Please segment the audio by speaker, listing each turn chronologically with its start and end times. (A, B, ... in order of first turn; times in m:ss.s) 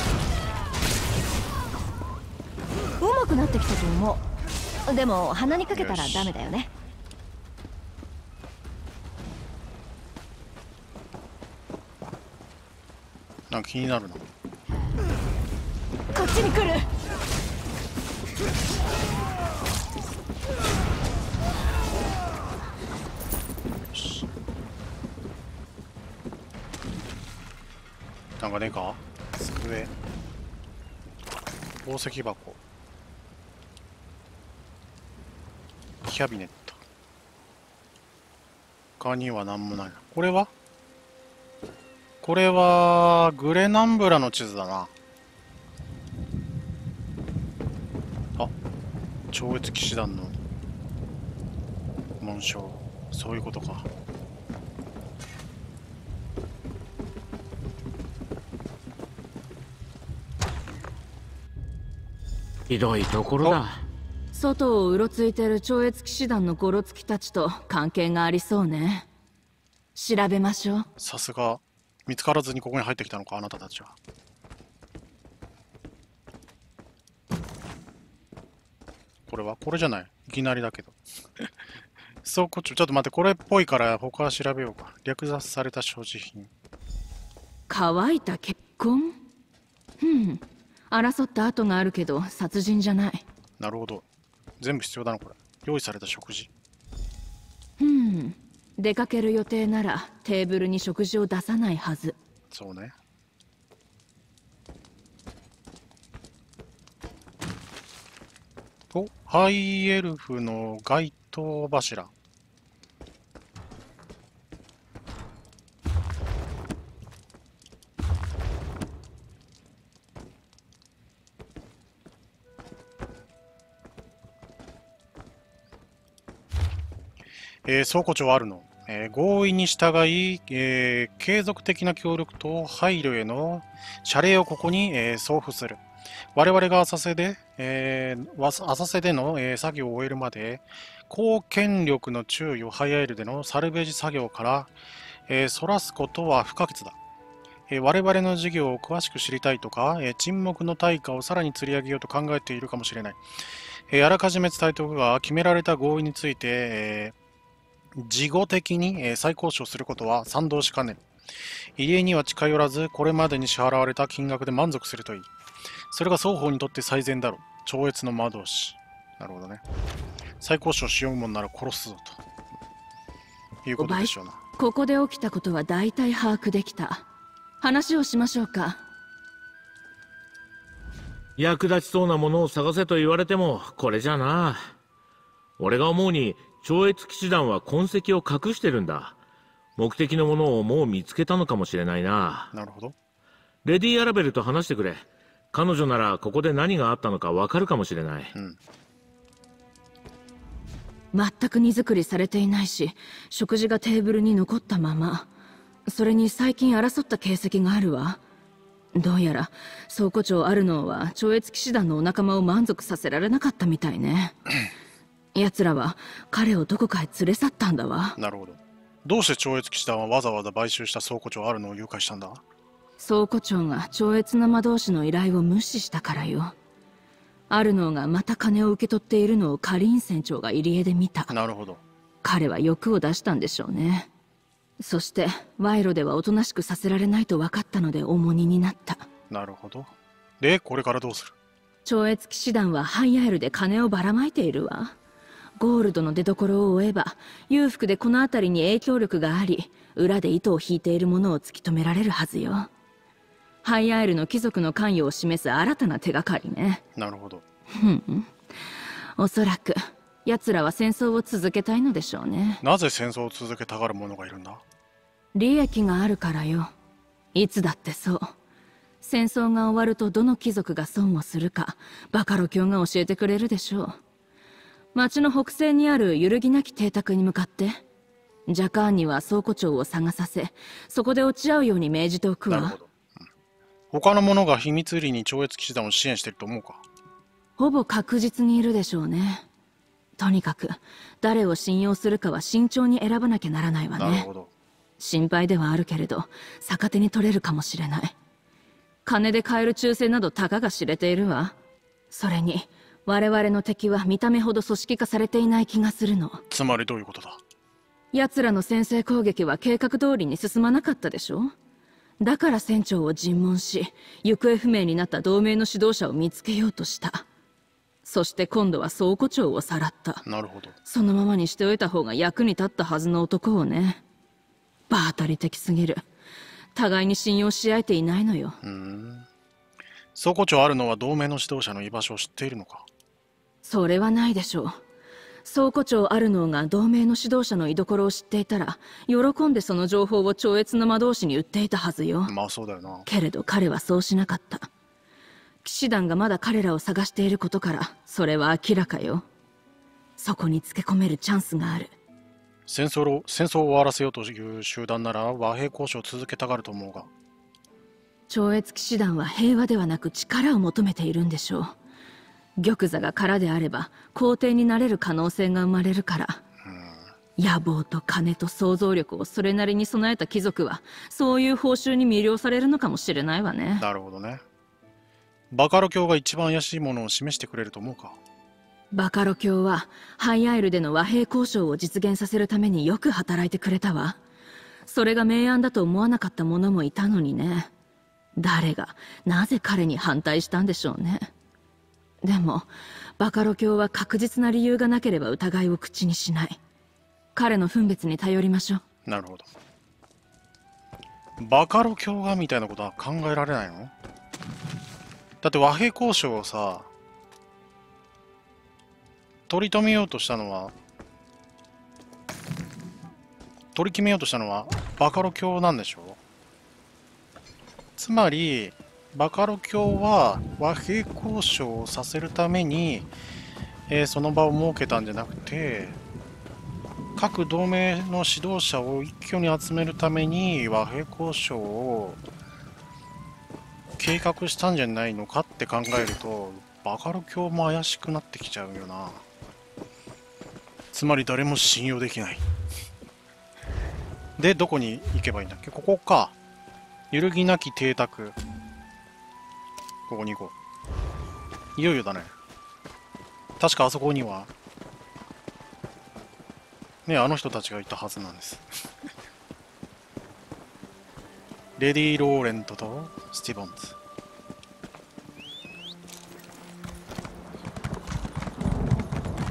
0:03.0-0:04.2 A
0:04.9-0:06.7 A
0:05.7-0:06.3 B
0:13.5-0:14.3 B
0:16.1-0:16.9 A
0:23.9-0:24.3 B
0:28.4-0:29.9 B
0:31.8-0:32.6 B
0:36.0-0:36.8 B
0:39.0-0:40.5 B
0:42.2-0:44.9 B
0:49.3-0:50.4 B
0:52.2-0:53.9 B
1:02.7-1:03.8 C
1:04.3-1:09.1 D
1:10.0-1:10.9 D
1:11.0-1:14.0 B
1:19.3-1:21.4 B
1:22.2-1:26.5 B
1:27.7-1:29.2 D
1:30.0-1:33.3 D
1:33.6-1:34.0 B
1:34.6-1:36.5 B
1:37.8-1:42.2 D
1:42.5-1:43.0 B
1:48.9-1:52.1 B
2:07.6-2:15.8 B
2:16.4-2:24.7 B
2:25.3-2:27.0 B
2:27.7-2:33.3 B
2:33.9-2:37.1 B
2:38.0-2:41.0 B
2:41.8-2:45.3 B
2:45.9-2:49.6 B
2:50.4-2:52.2 B
2:53.6-2:54.4 B
2:53.8-2:57.0 D
2:57.6-2:58.8 D
3:01.4-3:04.7 C
3:05.6-3:09.2 C
3:09.8-3:12.5 C
3:12.5-3:13.0 B
3:13.6-3:18.3 C
3:21.1-3:25.3 D
3:25.9-3:28.2 D
3:29.0-3:34.4 D
3:35.4-3:38.2 D
3:38.2-3:42.4 B
3:43.0-3:46.5 D
3:47.5-3:51.3 D
3:51.3-3:51.8 B
3:52.2-3:54.1 D
3:54.8-3:59.1 D
3:59.3-4:01.4 B
4:01.8-4:05.0 D
4:05.6-4:12.7 D
4:13.6-4:16.8 D
4:17.0-4:17.4 B
4:17.7-4:18.4 D
4:19.2-4:22.6 D
4:22.6-4:24.6 B
4:25.3-4:26.7 D
4:27.3-4:28.3 D
4:29.0-4:34.0 D
4:34.9-4:37.8 D
4:38.5-4:42.8 D
4:42.5-4:43.3 B
4:43.9-4:46.8 B
4:47.6-4:49.5 D
4:50.2-4:54.3 D
4:54.0-4:54.5 B
4:55.0-4:58.2 D
4:59.0-5:01.6 D
5:02.1-5:06.4 D
5:06.5-5:07.4 B
5:08.1-5:11.5 D
5:12.2-5:17.2 D
5:18.0-5:20.2 D
5:20.3-5:20.8 B
5:20.8-5:24.0 D
5:24.9-5:26.0 D
5:26.8-5:28.6 D
5:28.6-5:29.3 B
5:30.2-5:32.9 B
5:33.6-5:34.8 D
5:35.4-5:42.3 D
5:42.3-5:43.1 B
5:43.1-5:44.7 D
5:45.6-5:49.2 D
5:50.2-5:51.9 D
5:52.7-5:57.1 B
5:58.3-6:01.8 D
6:02.6-6:06.4 D
6:06.6-6:07.1 B
6:07.4-6:13.8 D
6:13.8-6:14.4 B
6:15.5-6:18.2 B
6:18.9-6:24.2 D
6:24.9-6:27.7 D
6:28.4-6:31.3 D
6:32.2-6:36.6 D
6:37.4-6:38.8 D
6:39.1-6:39.5 B
6:41.4-6:43.9 B
6:45.4-6:46.9 B
6:49.5-6:50.7 B
6:53.8-6:56.2 B
6:58.0-7:03.1 B
7:03.9-7:06.0 B
7:07.2-7:12.2 B
7:14.0-7:19.2 B
7:20.9-7:22.4 B
7:24.4-7:26.4 B
7:27.1-7:28.4 B
7:30.1-7:30.6 B
7:31.8-7:32.3 B
7:33.6-7:34.5 B
7:37.1-7:38.7 B
7:41.8-7:44.0 B